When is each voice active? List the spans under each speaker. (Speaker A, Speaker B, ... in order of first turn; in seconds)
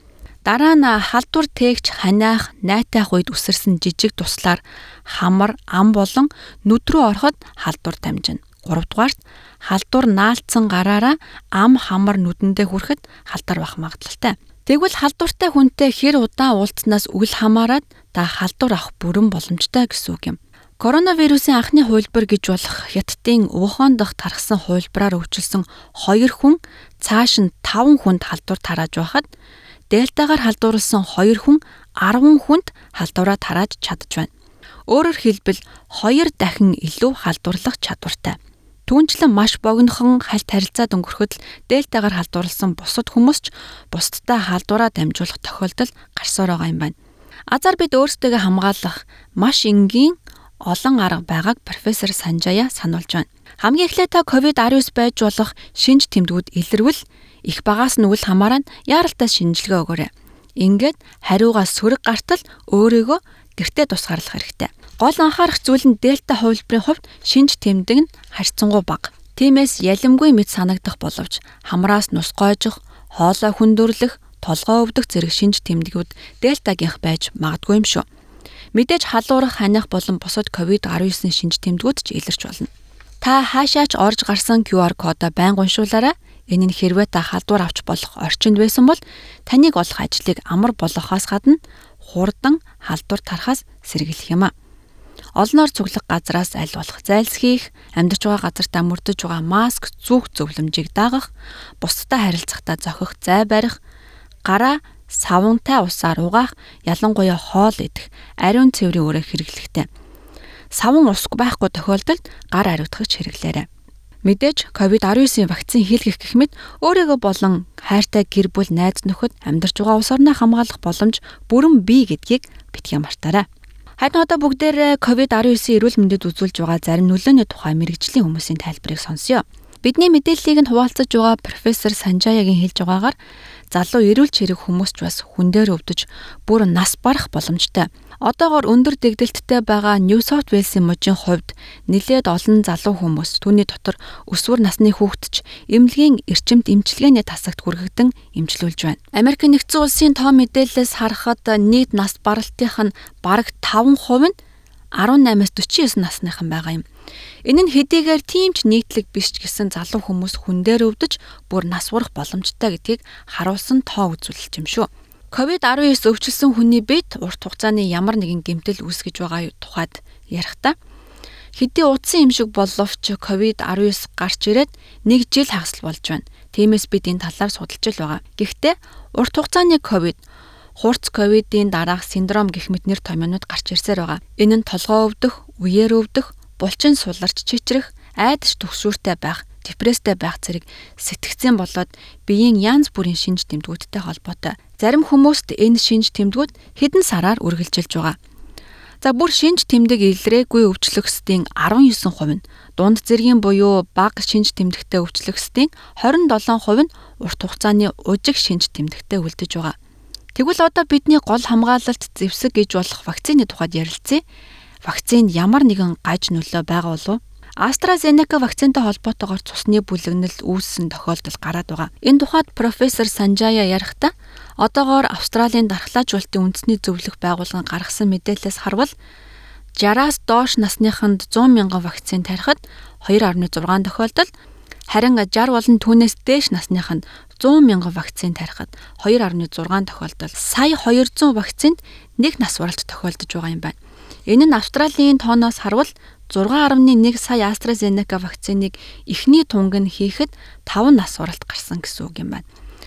Speaker A: 0.5-29.3, 29.9-34.3, 34.9-46.9, 47.5-78.0, 78.7-82.7, 83.2-94.5, 95.4-101.3, 101.8-103.8, 104.5-109.9, 110.7-113.7, 114.2-123.5, 124.0-133.2, 133.7-154.3, 155.0-156.8, 157.5-170.8, 171.6-180.2, 180.8-198.2, 199.0-209.8, 210.4-214.2, 214.8-228.9, 229.8-234.3, 234.9-243.8, 244.3-252.4